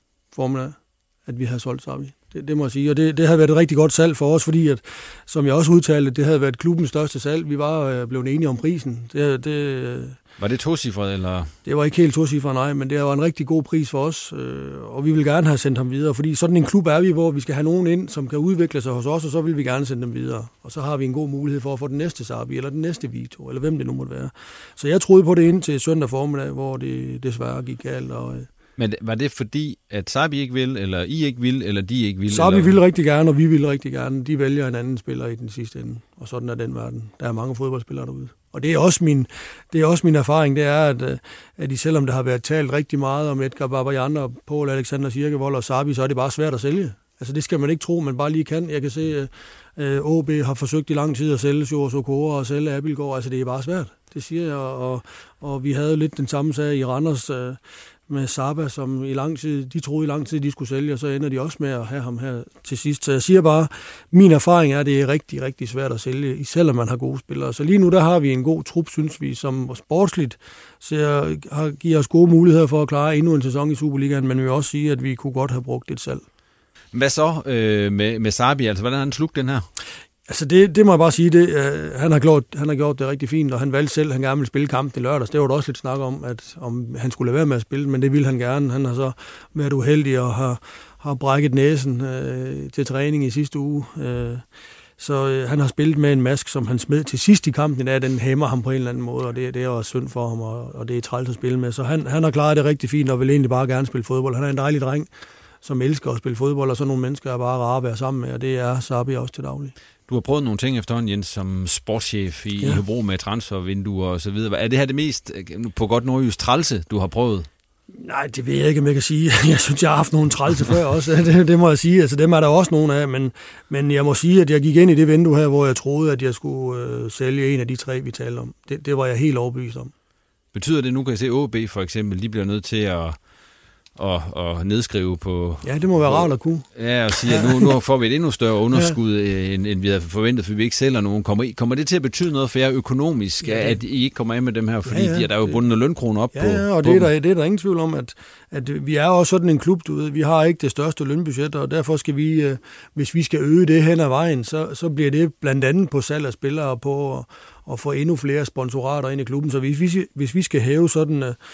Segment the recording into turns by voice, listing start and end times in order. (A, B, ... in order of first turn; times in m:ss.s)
0:00.3-0:10.2 A
0:10.4-0:11.5 B
0:11.6-0:28.5 A
0:28.8-0:32.8 B
0:32.3-1:16.2 A
1:16.9-1:19.7 B
1:20.3-1:34.4 A
1:35.0-1:45.1 A
1:45.6-1:49.7 A
1:50.1-1:57.5 B
1:57.9-2:09.9 A
2:10.5-2:13.2 B
2:14.0-2:27.1 B
2:15.6-2:17.7 A
2:23.4-2:23.8 A
2:24.8-2:25.6 A
2:26.3-2:41.4 A